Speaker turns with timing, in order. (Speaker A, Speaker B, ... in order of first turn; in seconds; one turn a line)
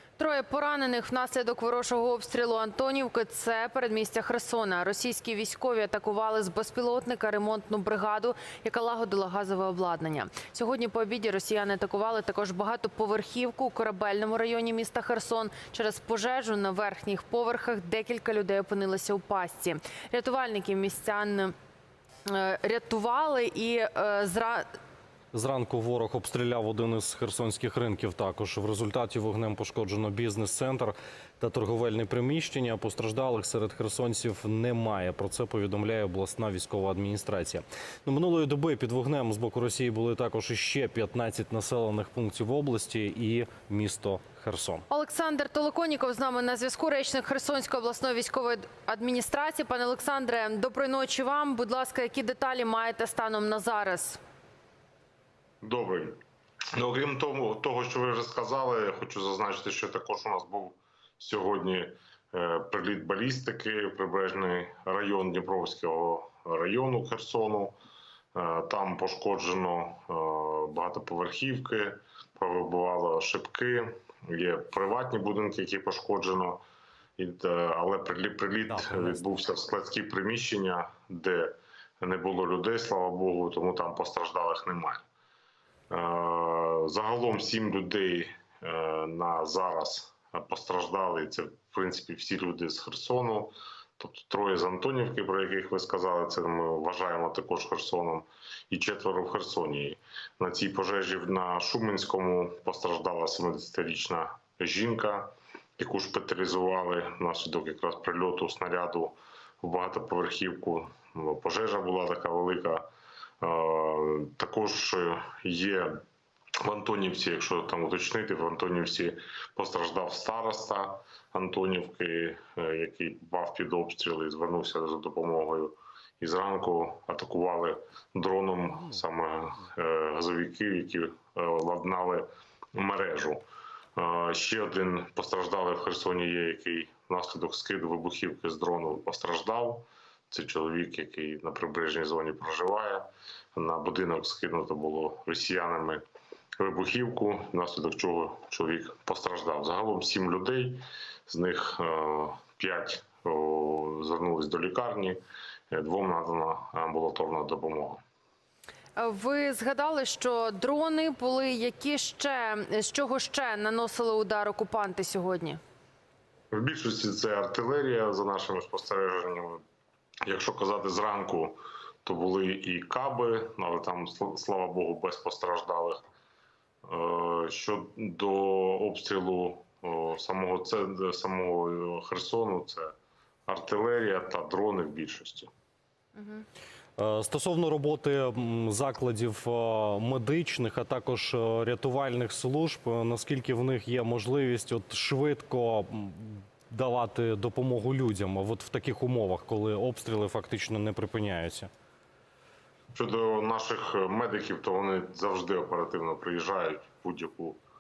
Speaker A: 0.2-21.5
Speaker A: 22.3-24.7
Speaker B: 25.3-44.8
Speaker A: 44.9-54.2
Speaker C: 55.6-56.2
Speaker C: 56.8-67.8
Speaker C: 68.3-76.6
Speaker C: 77.2-85.0
Speaker B: 78.7-79.3
Speaker C: 85.9-112.9
Speaker C: 113.4-116.0
Speaker C: 116.6-146.0
Speaker C: 146.6-155.2
Speaker C: 155.7-158.0
Speaker A: 159.0-165.6
Speaker C: 166.5-169.6
Speaker C: 170.2-176.0
Speaker C: 176.8-182.9
Speaker C: 183.5-185.5
Speaker A: 186.2-186.5
Speaker B: 187.0-201.7
Speaker C: 202.9-207.6